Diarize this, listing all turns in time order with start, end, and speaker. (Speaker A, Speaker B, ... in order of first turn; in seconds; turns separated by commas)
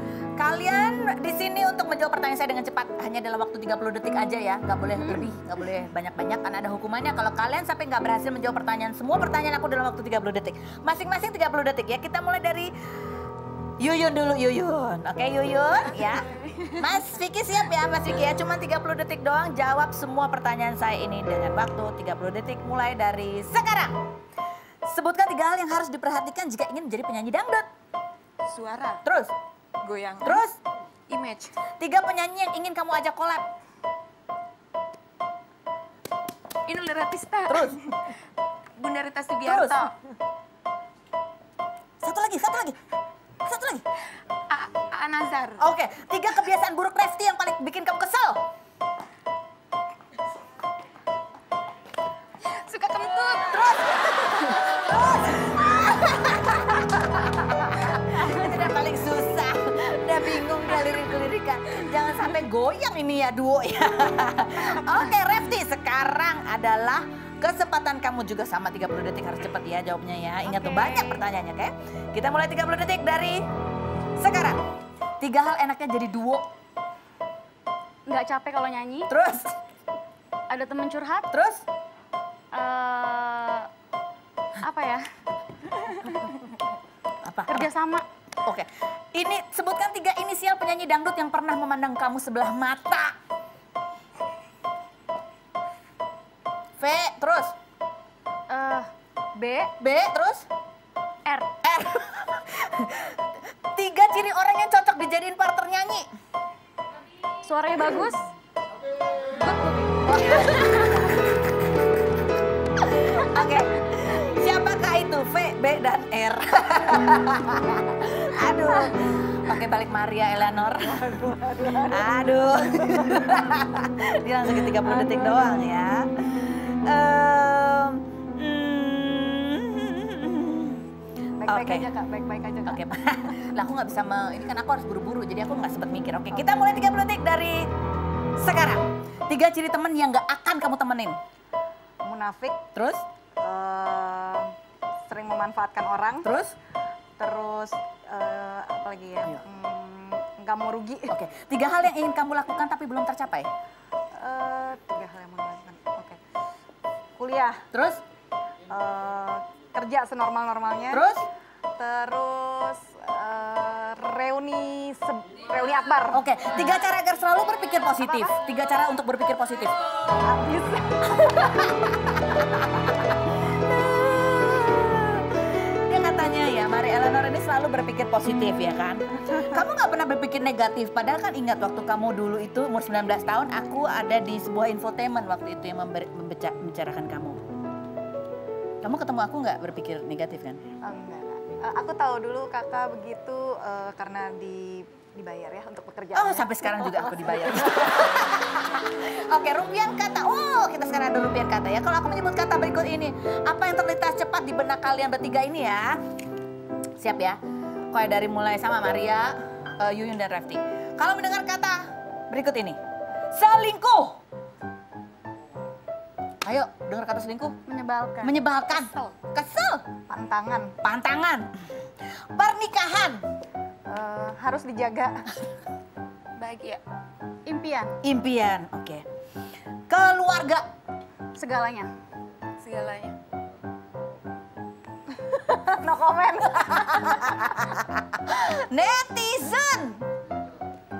Speaker A: 0.4-12.7, Speaker B: 4.9-5.3, Speaker A: 13.8-23.9, Speaker A: 24.9-27.7, Speaker C: 28.5-29.0, Speaker A: 29.0-29.3, Speaker C: 29.8-30.4, Speaker A: 30.2-30.6, Speaker C: 31.1-31.5, Speaker A: 31.7-33.5, Speaker A: 37.5-37.9, Speaker C: 38.8-39.9, Speaker A: 39.4-39.9, Speaker A: 42.0-42.8, Speaker A: 43.5-43.9, Speaker C: 44.5-45.6, Speaker A: 45.6-48.4, Speaker C: 52.6-53.4, Speaker B: 52.8-53.6, Speaker A: 53.4-73.5, Speaker B: 70.4-71.2, Speaker A: 74.2-74.6, Speaker A: 75.2-76.5, Speaker B: 78.1-79.1, Speaker A: 79.1-79.6, Speaker B: 80.5-81.3, Speaker A: 81.3-81.7, Speaker B: 82.5-83.7, Speaker B: 84.6-85.0, Speaker B: 85.8-86.3, Speaker A: 87.2-87.7, Speaker B: 87.5-88.1, Speaker A: 88.5-93.2, Speaker A: 96.8-97.5, Speaker B: 98.5-99.7, Speaker A: 99.8-100.5, Speaker A: 101.6-106.1, Speaker B: 107.4-108.3, Speaker B: 109.3-111.2, Speaker A: 110.2-111.1, Speaker A: 112.8-130.9, Speaker C: 120.8-122.3, Speaker B: 125.0-125.5, Speaker C: 131.4-132.8, Speaker A: 131.4-131.9, Speaker A: 132.7-137.7, Speaker C: 136.3-136.7, Speaker A: 138.4-141.2, Speaker C: 142.0-142.6, Speaker A: 142.8-143.1, Speaker C: 143.4-144.5, Speaker C: 145.1-146.3, Speaker A: 146.2-146.6, Speaker C: 147.2-151.2, Speaker A: 151.1-153.5, Speaker C: 154.1-156.2, Speaker C: 157.2-157.7, Speaker A: 157.7-158.0, Speaker C: 158.7-161.1, Speaker A: 160.9-161.3, Speaker C: 161.8-166.3, Speaker A: 166.1-169.8, Speaker C: 168.0-168.3, Speaker C: 170.1-172.0, Speaker A: 173.5-187.4, Speaker A: 188.8-190.6, Speaker C: 190.8-198.0, Speaker A: 196.1-206.0, Speaker A: 207.0-207.4, Speaker A: 207.9-212.8, Speaker A: 213.3-214.2, Speaker A: 216.4-217.6, Speaker B: 217.7-218.4, Speaker A: 218.2-219.8, Speaker C: 220.1-220.8, Speaker A: 220.8-223.2, Speaker C: 223.9-225.2, Speaker C: 226.4-226.8, Speaker B: 227.5-228.0, Speaker A: 228.0-229.0, Speaker A: 229.9-230.6, Speaker B: 231.4-231.9, Speaker C: 232.6-233.1, Speaker C: 235.2-237.6, Speaker A: 237.0-240.1